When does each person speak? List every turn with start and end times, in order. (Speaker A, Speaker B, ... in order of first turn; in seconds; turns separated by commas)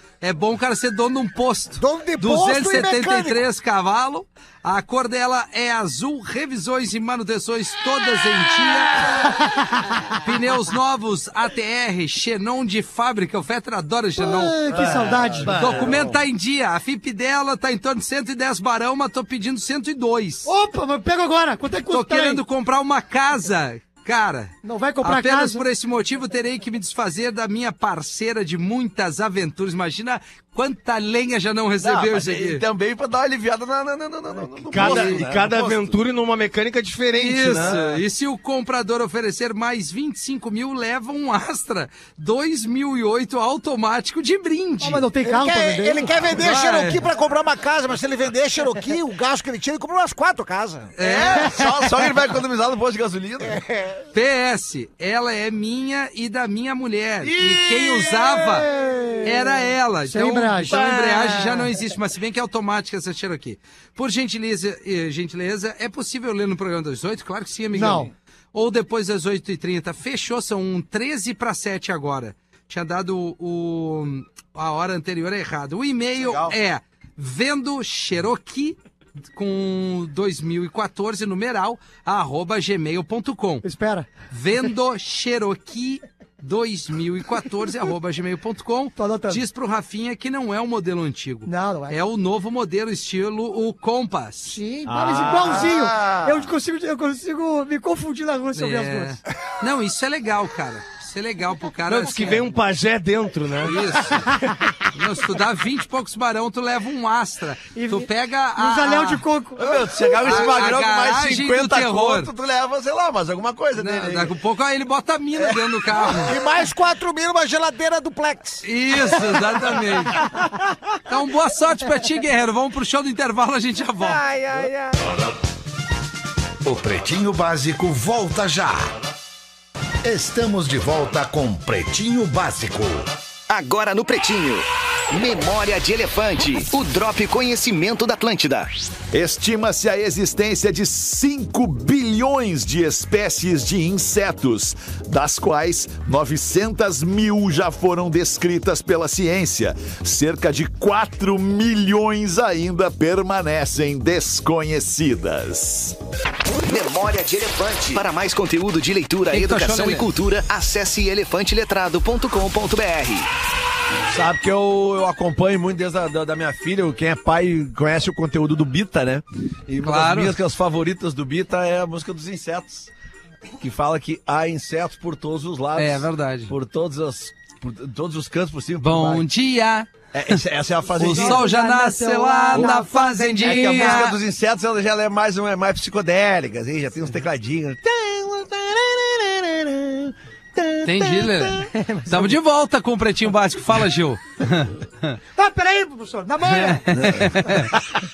Speaker A: 0.2-9.3, Speaker B: 1.8-3.4, Speaker C: 9.2-10.2, Speaker A: 10.2-14.8, Speaker C: 14.2-15.8, Speaker D: 14.7-16.2, Speaker A: 15.5-20.5, Speaker C: 20.4-22.4, Speaker A: 21.9-32.6, Speaker C: 24.6-25.6, Speaker D: 31.8-36.0, Speaker E: 34.7-38.0, Speaker A: 34.8-35.2, Speaker A: 37.1-45.0, Speaker C: 44.8-46.2, Speaker B: 45.2-50.9, Speaker A: 46.3-47.0, Speaker A: 51.0-51.5, Speaker D: 51.0-53.6, Speaker C: 51.3-51.9, Speaker B: 53.5-54.0, Speaker A: 54.1-58.7, Speaker D: 57.2-58.7, Speaker C: 58.8-59.4, Speaker A: 59.2-78.8, Speaker C: 60.0-61.6, Speaker D: 60.7-61.4, Speaker C: 67.7-68.1, Speaker D: 76.1-76.5, Speaker A: 79.3-83.6, Speaker C: 83.6-84.1, Speaker A: 84.3-94.6, Speaker C: 89.0-89.4, Speaker C: 91.5-92.0, Speaker C: 94.4-99.2, Speaker E: 94.8-95.5, Speaker D: 95.4-96.5, Speaker A: 98.5-102.5, Speaker E: 101.9-103.8, Speaker A: 103.6-104.3, Speaker C: 104.1-104.6, Speaker A: 104.9-109.2, Speaker C: 107.7-110.2, Speaker D: 109.6-114.3, Speaker A: 110.2-112.3, Speaker A: 113.7-116.3, Speaker B: 116.1-118.6, Speaker A: 118.6-120.2, Speaker A: 121.1-124.2, Speaker B: 124.0-125.0, Speaker F: 126.6-128.9, Speaker F: 130.0-133.1, Speaker G: 133.5-138.7, Speaker F: 139.1-156.0, Speaker G: 156.6-163.3, Speaker A: 159.3-160.1, Speaker D: 164.1-172.9, Speaker A: 169.8-170.3, Speaker D: 173.6-179.2, Speaker A: 175.8-176.5, Speaker A: 178.8-180.4, Speaker D: 180.1-181.4, Speaker C: 180.9-184.1, Speaker A: 181.0-184.2, Speaker D: 183.4-191.4, Speaker A: 190.8-195.2, Speaker C: 191.7-192.3, Speaker C: 195.3-197.5, Speaker A: 196.5-197.8, Speaker D: 196.9-197.8